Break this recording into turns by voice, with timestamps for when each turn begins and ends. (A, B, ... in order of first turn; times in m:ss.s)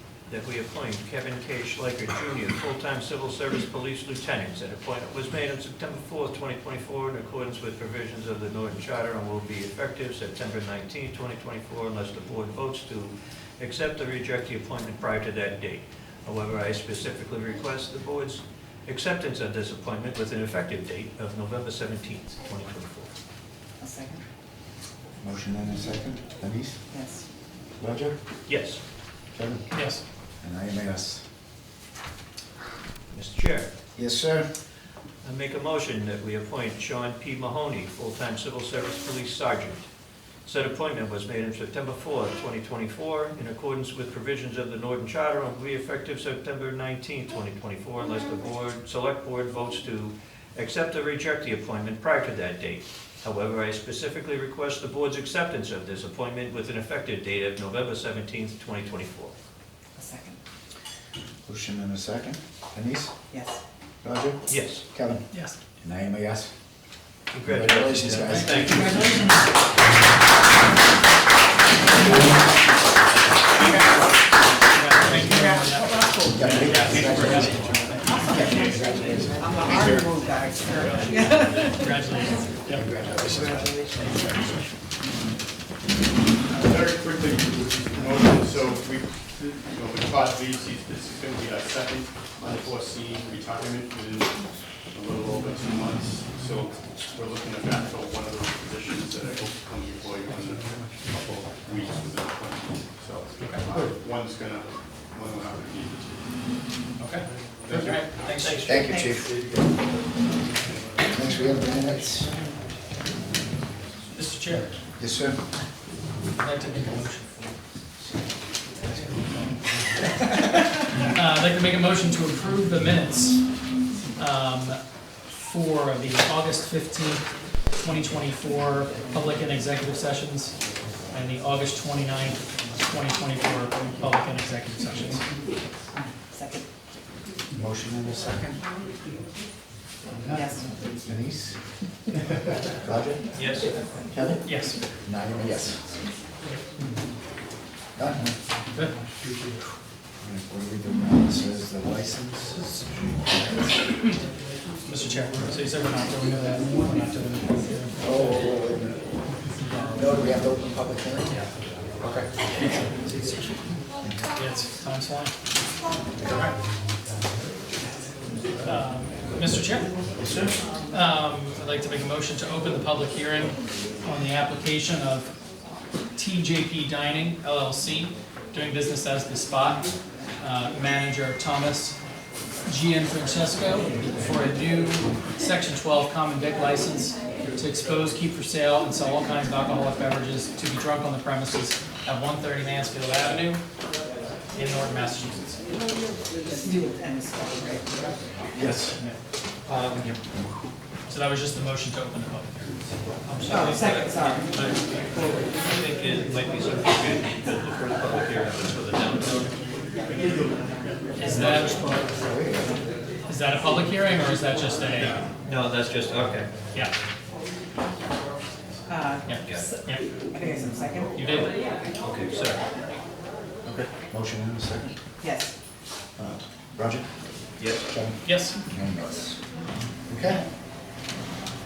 0:00.3-0:23.1 A
0:23.8-0:24.2 B
0:25.2-0:26.8 C
0:26.9-0:27.2 B
0:27.8-0:28.2 C
0:28.5-0:28.8 A
0:29.3-0:29.7 C
0:29.7-0:30.0 D
0:30.4-0:31.2 C
0:33.1-0:33.7 A
0:34.0-0:34.5 C
0:35.2-0:39.9 A
0:40.4-0:59.3 A
1:00.0-1:00.4 B
1:01.4-1:03.1 C
1:03.3-1:03.6 B
1:04.0-1:06.5 C
1:04.5-1:04.8 A
1:07.3-1:09.0 A
1:07.4-1:09.2 C
1:08.6-1:09.4 D
1:13.6-1:14.0 B
1:14.7-1:18.6 D
1:15.2-1:16.6 B
1:16.3-1:20.0 C
1:18.2-1:18.8 B
1:19.4-1:22.5 B
1:21.7-1:22.9 D
1:22.7-1:24.6 C
1:23.2-1:24.1 B
1:26.5-1:46.3 E
1:43.4-1:43.7 D
1:47.0-1:48.7 D
1:47.3-1:47.9 E
1:48.4-1:48.6 A
1:48.6-1:49.4 C
1:48.7-1:49.2 B
1:51.1-1:52.3 C
1:54.1-1:54.7 D
1:55.0-1:55.4 C
1:56.4-1:57.4 D
2:01.0-2:03.6 D
2:04.1-2:04.8 D
2:05.3-2:10.6 D
2:11.1-2:15.2 D
2:16.0-2:16.6 B
2:17.5-2:18.6 C
2:20.3-2:20.7 B
2:20.3-2:21.6 C
2:22.7-2:26.0 C
2:23.4-2:23.7 A
2:24.4-2:24.8 D
2:28.0-2:28.4 C
2:30.2-2:32.8 C
2:33.3-2:33.7 C
2:34.8-2:38.4 D
2:38.0-2:39.0 C
2:39.6-2:39.9 D
2:39.9-2:41.4 C
2:42.0-2:42.3 C
2:42.5-2:43.6 D
2:44.0-2:44.3 C
2:44.4-2:45.3 D
2:46.2-2:46.5 C
2:48.6-2:49.9 D
2:50.2-2:50.6 C
2:50.9-2:55.3 D
2:56.1-3:02.0 D
3:02.7-3:13.6 D
3:14.5-3:15.6 D
3:16.4-3:18.1 B
3:18.5-3:19.0 C
3:19.7-3:20.1 A
3:20.0-3:20.4 C
3:21.1-3:23.6 D
3:23.3-3:29.5 A
3:23.4-3:24.6 B
3:25.1-3:25.5 B
3:31.2-3:32.0 D
3:31.4-3:31.7 A
3:32.1-3:32.7 C
3:33.3-3:35.2 D
3:35.4-3:36.5 A
3:38.9-3:41.1 B
3:39.2-3:40.0 D
3:41.2-3:41.5 D
3:42.0-3:42.6 A
3:44.1-3:45.0 C
3:45.2-3:45.5 B
3:46.2-3:47.1 C
3:47.6-3:47.8 A
3:47.8-3:49.4 C
3:48.2-3:48.6 D
3:50.1-3:50.4 C